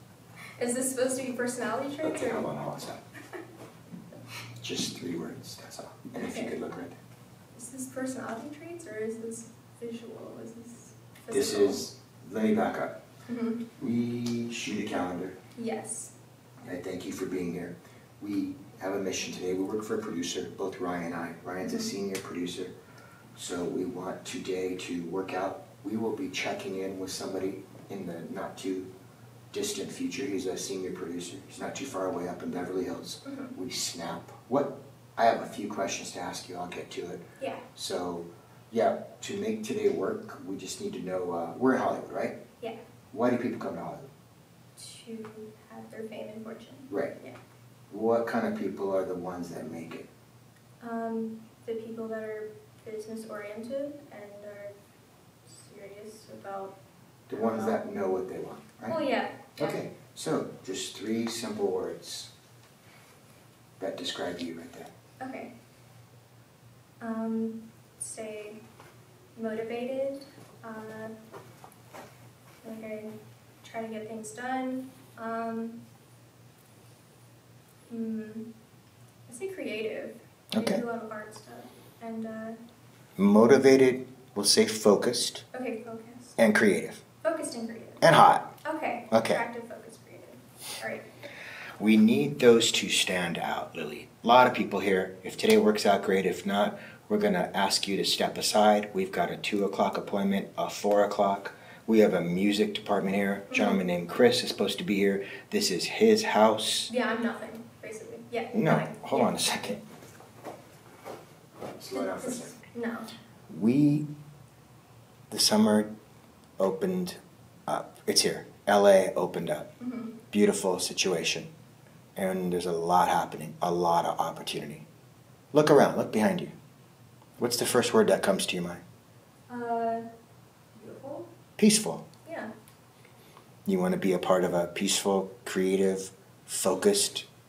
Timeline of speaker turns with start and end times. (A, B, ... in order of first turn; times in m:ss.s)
0:00.6-0:02.5 A
0:02.0-0:03.0 B
0:04.6-0:07.0 B
0:06.2-0:06.6 A
0:07.5-0:11.8 A
0:11.3-0:13.0 B
0:13.3-0:13.6 A
0:13.8-0:15.4 B
0:15.6-0:16.1 A
0:16.6-0:22.7 B
0:23.4-0:28.9 B
0:29.5-0:37.2 B
0:33.3-0:33.5 A
0:37.4-0:37.6 A
0:37.8-0:42.4 B
0:43.1-0:44.1 B
0:44.8-0:47.4 A
0:47.9-0:50.1 B
0:50.8-0:54.7 A
0:55.5-0:56.8 A
0:57.3-0:59.0 B
0:57.3-0:57.8 A
0:58.9-0:59.8 A
0:59.6-1:02.3 B
1:03.8-1:04.9 B
1:05.2-1:05.5 A
1:07.0-1:08.6 A
1:09.4-1:11.1 A
1:12.6-1:15.8 A
1:17.9-1:18.5 A
1:19.3-1:22.6 A
1:20.5-1:20.8 B
1:23.2-1:25.4 B
1:25.5-1:26.4 A
1:26.4-1:27.0 B
1:27.2-1:28.0 A
1:28.0-1:28.5 B
1:28.6-1:31.0 A
1:29.1-1:29.4 B
1:31.8-1:46.9 B
1:43.5-1:43.8 A
1:46.9-1:49.5 A
1:48.5-1:49.8 B
1:51.8-1:52.5 B
1:51.9-1:53.1 A
1:53.5-1:54.1 B
1:55.3-1:55.9 B
1:56.6-1:59.7 B
1:59.8-2:00.2 A
2:00.3-2:01.5 B
2:02.2-2:04.9 B
2:05.5-2:06.5 B
2:07.4-2:08.8 B
2:09.5-2:10.0 A
2:10.8-2:11.3 A
2:11.6-2:12.1 B
2:12.3-2:12.5 A
2:13.7-2:17.3 B